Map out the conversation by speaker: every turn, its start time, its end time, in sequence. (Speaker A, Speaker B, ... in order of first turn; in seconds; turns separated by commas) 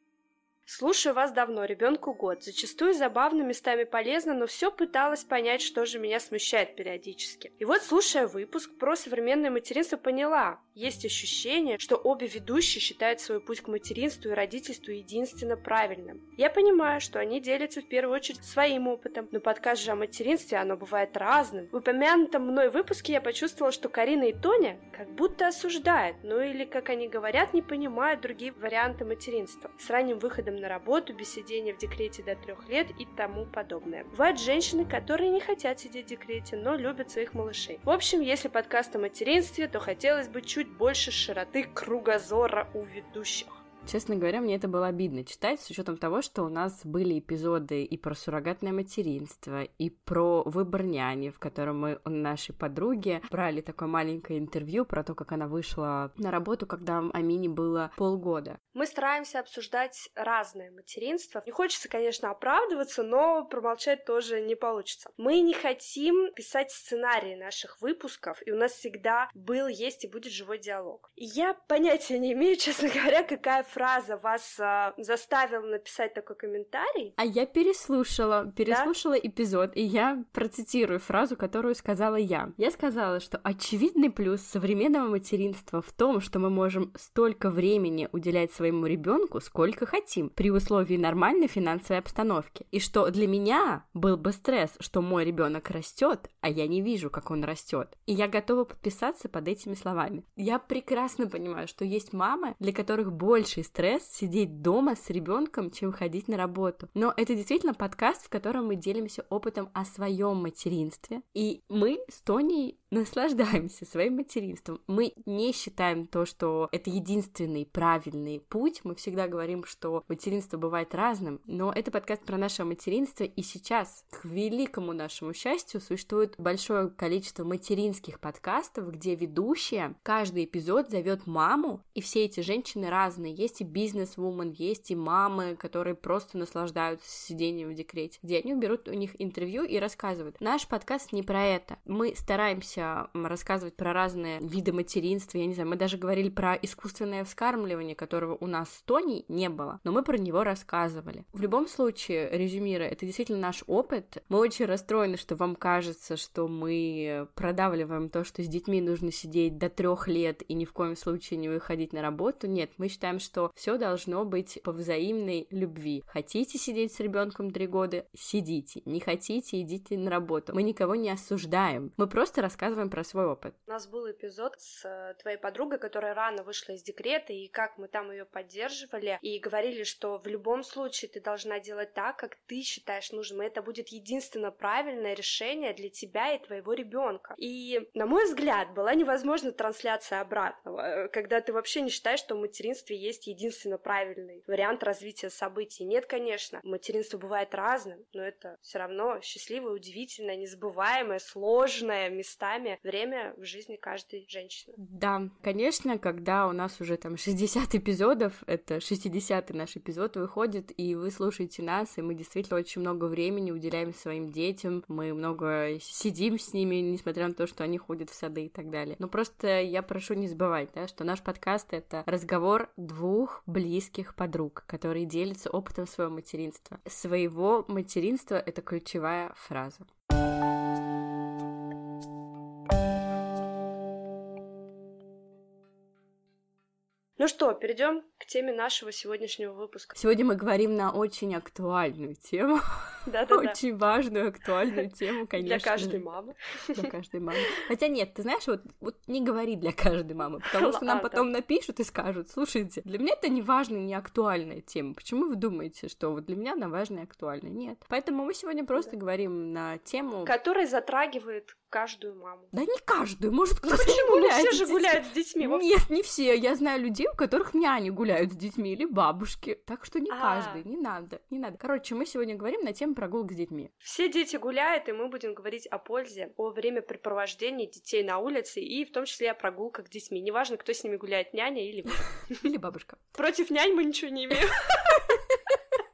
Speaker A: 0.7-43.6, Speaker B: 43.9-58.6, Speaker A: 58.7-77.2, Speaker B: 77.2-173.6, Speaker A: 173.7-204.8, Speaker B: 204.8-229.9, Speaker A: 237.2-240.0, Speaker B: 239.9-246.0, Speaker A: 243.1-243.6, Speaker A: 245.4-246.9, Speaker B: 246.8-260.3, Speaker A: 250.5-251.3, Speaker A: 260.2-262.5, Speaker B: 262.5-273.7, Speaker A: 263.6-265.6, Speaker A: 270.1-270.6, Speaker A: 273.8-282.4, Speaker B: 282.4-283.1, Speaker A: 283.1-285.0, Speaker B: 284.9-285.8